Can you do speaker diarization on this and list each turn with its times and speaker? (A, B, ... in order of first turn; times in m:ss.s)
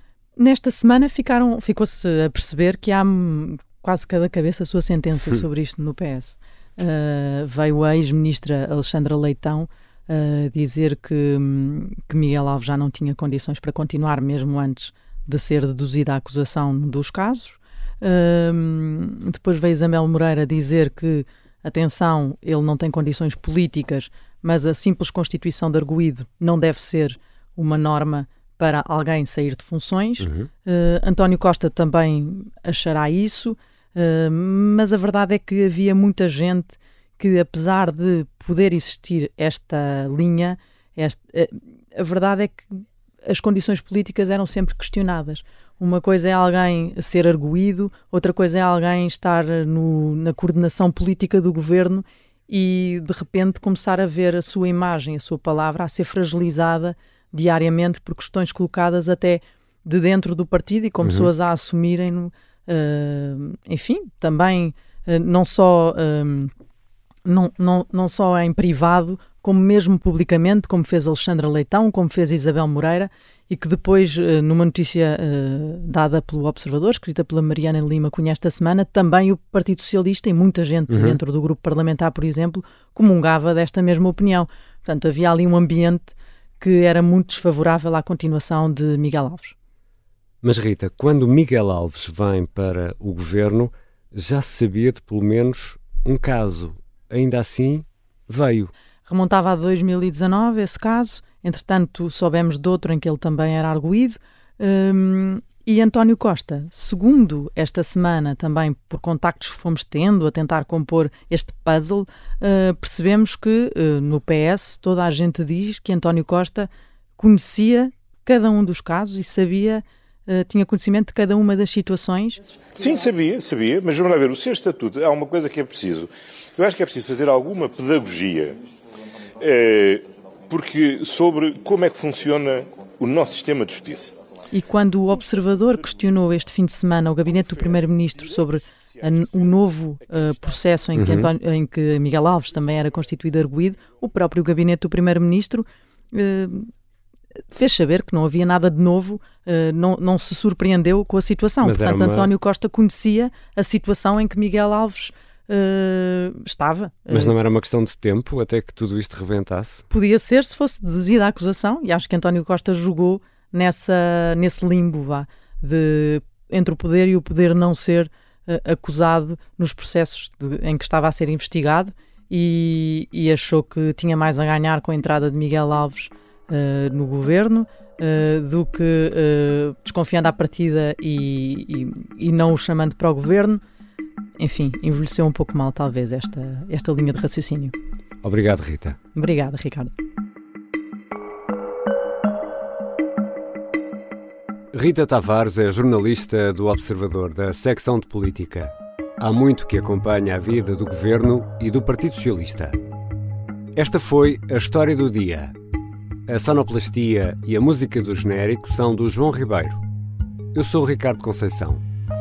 0:00.4-0:42.6 A
0:30.2-0:30.5 B
0:43.2-1:06.5 A
1:01.0-1:01.3 B
1:07.2-1:29.5 A
1:20.9-1:21.2 B
1:30.4-1:38.7 B
1:39.0-2:02.4 A
2:02.7-2:08.6 C
2:09.4-2:14.1 C
2:14.5-2:26.7 A
2:18.3-2:19.6 C
2:20.9-2:21.3 B
2:27.5-2:37.3 A
2:31.6-2:32.3 B
2:37.1-2:39.8 B
2:39.9-3:03.6 A
3:04.4-3:07.7 A
3:08.2-3:09.0 B
3:09.1-3:09.9 A
3:14.7-3:22.8 B
3:23.7-3:25.5 B
3:26.3-3:29.8 B
3:30.5-3:31.8 B